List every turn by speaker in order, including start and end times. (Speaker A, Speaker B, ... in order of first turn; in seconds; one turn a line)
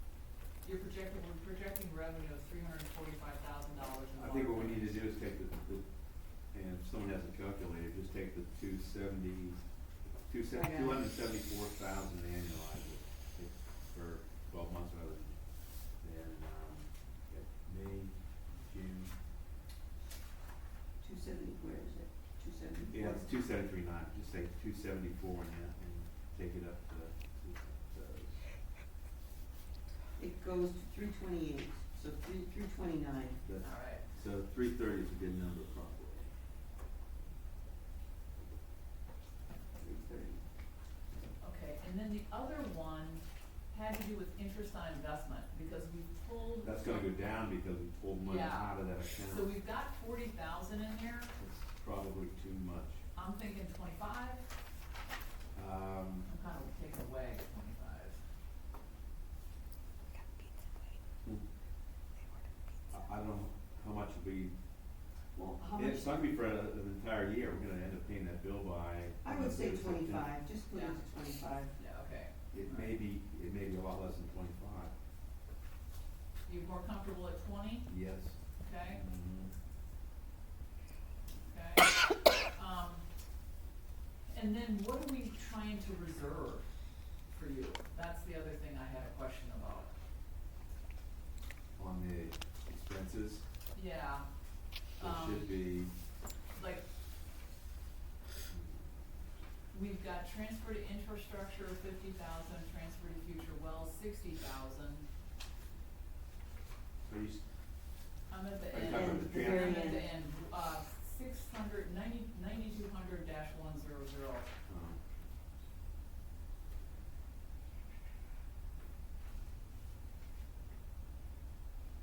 Speaker A: 0.6-4.9
Speaker B: 4.2-9.7
Speaker B: 10.2-19.1
Speaker C: 10.5-11.0
Speaker C: 21.0-23.3
Speaker B: 22.9-28.4
Speaker C: 30.2-33.4
Speaker B: 33.4-36.3
Speaker A: 33.6-34.0
Speaker C: 39.8-40.4
Speaker A: 41.4-47.1
Speaker B: 46.6-49.5
Speaker A: 48.2-51.3
Speaker B: 51.4-53.0
Speaker A: 53.1-54.5
Speaker B: 55.5-56.3
Speaker A: 56.2-58.2
Speaker B: 62.9-64.5
Speaker C: 65.3-66.2
Speaker B: 65.8-70.3
Speaker C: 69.2-71.7
Speaker A: 70.7-71.1
Speaker A: 71.6-73.0
Speaker B: 72.5-74.9
Speaker A: 76.5-77.9
Speaker B: 77.9-79.5
Speaker A: 78.6-79.0
Speaker A: 81.4-82.0
Speaker A: 82.5-83.0
Speaker A: 84.3-86.7
Speaker A: 87.3-89.9
Speaker B: 91.8-93.4
Speaker A: 93.7-94.2
Speaker A: 95.0-95.5
Speaker B: 95.0-95.9
Speaker A: 96.5-96.8
Speaker B: 98.5-99.0
Speaker A: 99.7-105.0
Speaker B: 107.0-107.4
Speaker A: 108.3-114.5
Speaker B: 108.7-109.8
Speaker C: 108.8-110.0
Speaker B: 114.7-115.0